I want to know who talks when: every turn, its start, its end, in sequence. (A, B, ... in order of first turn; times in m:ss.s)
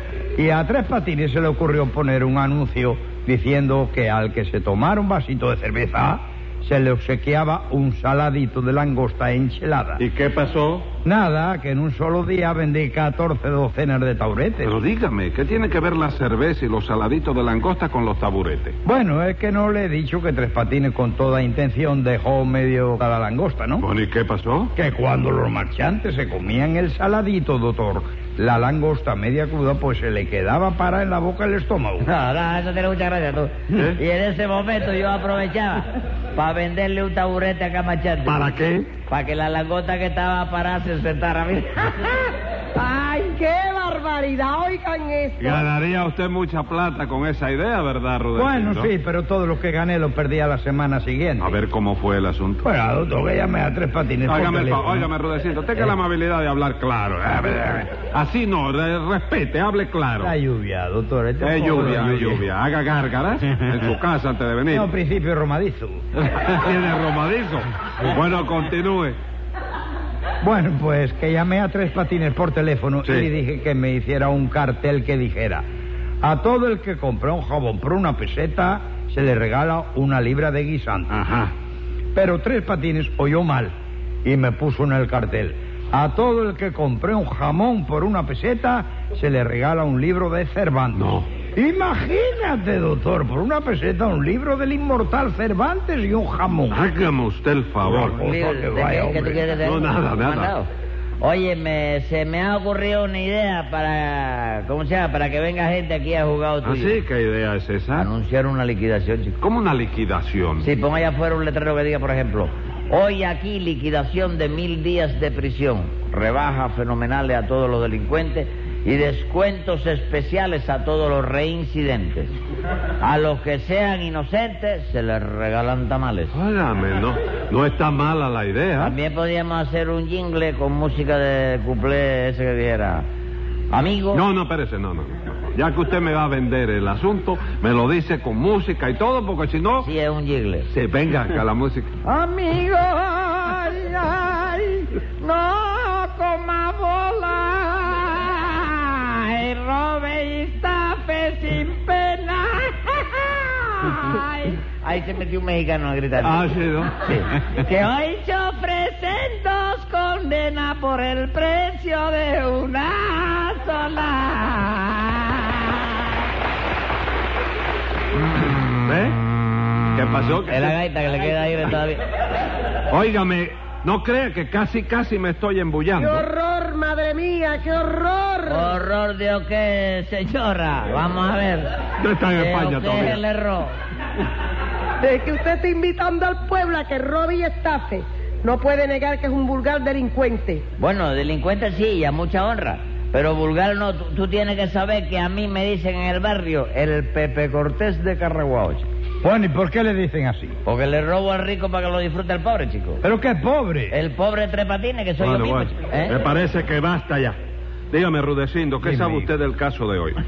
0:00.4-0:10.0 A
0:10.0-0:10.9 B
0:11.0-0:14.8 A
0:14.6-0:18.8 B
0:18.8-0:23.9 A
0:23.8-0:24.7 B
0:24.7-0:32.1 A
0:32.0-0:38.5 C
0:33.7-0:34.0 B
0:38.2-0:38.9 B
0:39.0-0:42.2 C
0:42.7-0:45.7 D
0:45.4-0:48.9 B
0:48.3-0:51.6 A
0:51.4-0:52.6 B
0:52.6-0:55.1 A
0:54.2-1:00.3 B
1:00.2-1:02.4 A
1:01.4-1:04.9 B
1:04.7-1:06.0 A
1:06.3-1:09.2 B
1:10.4-1:15.6 A
1:13.0-1:13.3 B
1:16.2-1:21.2 A
1:22.1-1:23.7 A
1:24.2-1:36.8 A
1:30.9-1:31.3 B
1:36.7-1:38.2 B
1:37.8-1:39.5 A
1:38.1-1:40.7 C
1:39.6-1:40.5 B
1:41.2-1:47.0 C
1:46.6-1:48.1 B
1:47.9-1:49.4 C
1:49.4-1:50.7 B
1:50.6-2:02.3 C
2:03.0-2:06.3 C
2:06.3-2:09.0 B
2:08.8-2:13.1 C
2:13.7-2:14.2 C
2:14.1-2:19.9 B
2:19.8-2:20.7 C
2:20.7-2:21.9 B
2:22.0-2:45.6 C
2:36.2-2:37.0 B
2:48.8-2:49.2 B
2:49.9-2:50.8 B
2:50.5-2:52.0 C
2:52.9-2:56.3 B
2:56.0-2:58.7 D
2:58.5-3:01.7 C
3:02.0-3:03.2 B
3:02.2-3:03.7 C
3:05.0-3:10.6 D
3:10.8-3:18.8 C
3:19.2-3:20.6 A
3:20.6-3:23.0 C
3:23.0-3:24.0 A
3:23.9-3:26.2 C
3:25.2-3:27.4 B
3:27.9-3:30.2 B
3:28.8-3:29.3 A